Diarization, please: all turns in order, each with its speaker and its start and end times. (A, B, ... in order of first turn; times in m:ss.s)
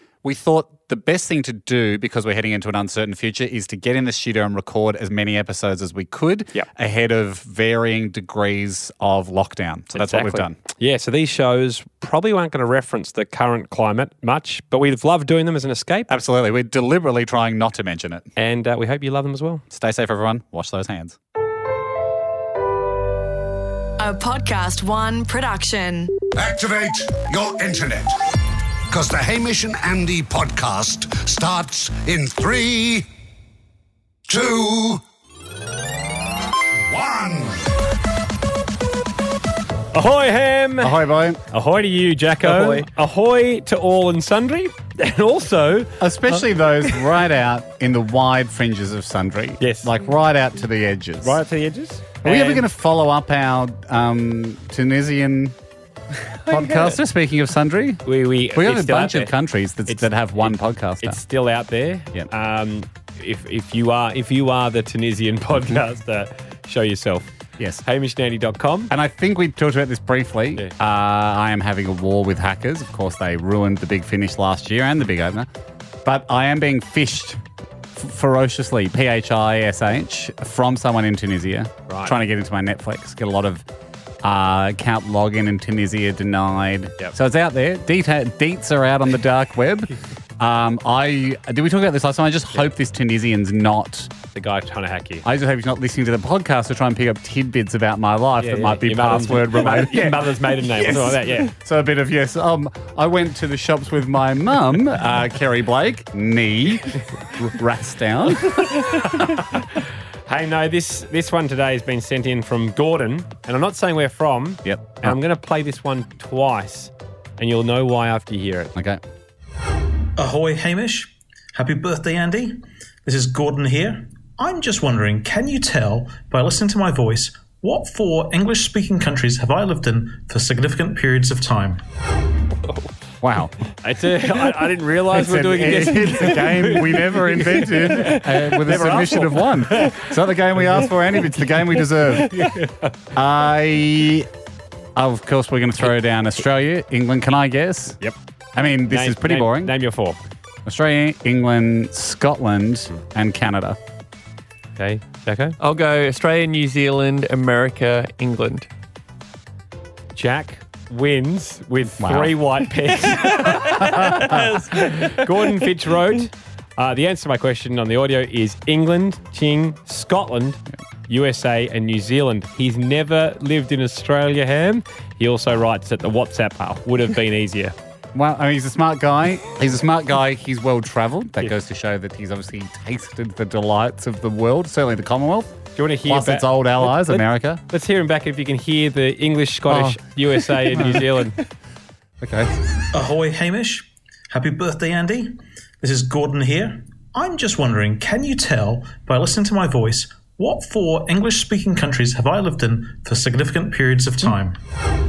0:00.2-0:10.6 A
0:10.0-0:16.1 B
0:16.1-0:18.3 A
0:18.4-0:19.6 B
0:19.7-0:21.2 A
0:24.0-0:26.1 C
0:26.4-0:28.2 D
0:28.9-0:33.1 D
0:34.3-0:35.0 D
0:36.9-0:37.7 D
0:39.9-0:41.0 B
0:40.8-0:41.4 A
0:41.5-0:47.2 B
0:42.4-0:42.9 E
0:46.0-0:51.4 A
0:49.6-0:49.9 B
0:51.2-0:52.6 B
0:52.2-0:55.6 A
0:56.4-0:57.0 B
0:56.5-1:01.2 A
0:58.1-0:59.3 B
0:59.9-1:07.3 B
1:07.8-1:08.9 B
1:08.9-1:15.5 A
1:16.0-1:17.4 A
1:18.0-1:23.6 A
1:21.9-1:22.2 B
1:24.2-1:34.1 A
1:34.3-1:35.3 B
1:35.2-1:49.3 A
1:38.4-1:41.5 B
1:48.6-1:58.8 B
1:54.7-1:55.2 A
1:58.8-1:59.0 A
2:00.2-2:11.8 F
2:13.2-2:13.5 A
2:13.8-2:21.4 B
2:15.1-2:22.4 A
2:22.0-2:22.9 B
2:23.2-2:24.3 A
2:25.0-2:28.0 A
2:28.6-2:29.7 A
2:28.9-2:30.2 B
2:30.7-2:33.8 A
2:34.8-2:35.6 B
2:35.6-2:38.7 E
2:40.2-2:57.8 B
2:42.0-2:42.4 A
2:43.3-2:45.6 E
2:43.6-2:44.4 A
2:58.2-3:07.6 A
3:05.8-3:11.4 B
3:09.7-3:11.4 A
3:12.2-3:12.5 A
3:12.9-3:24.6 F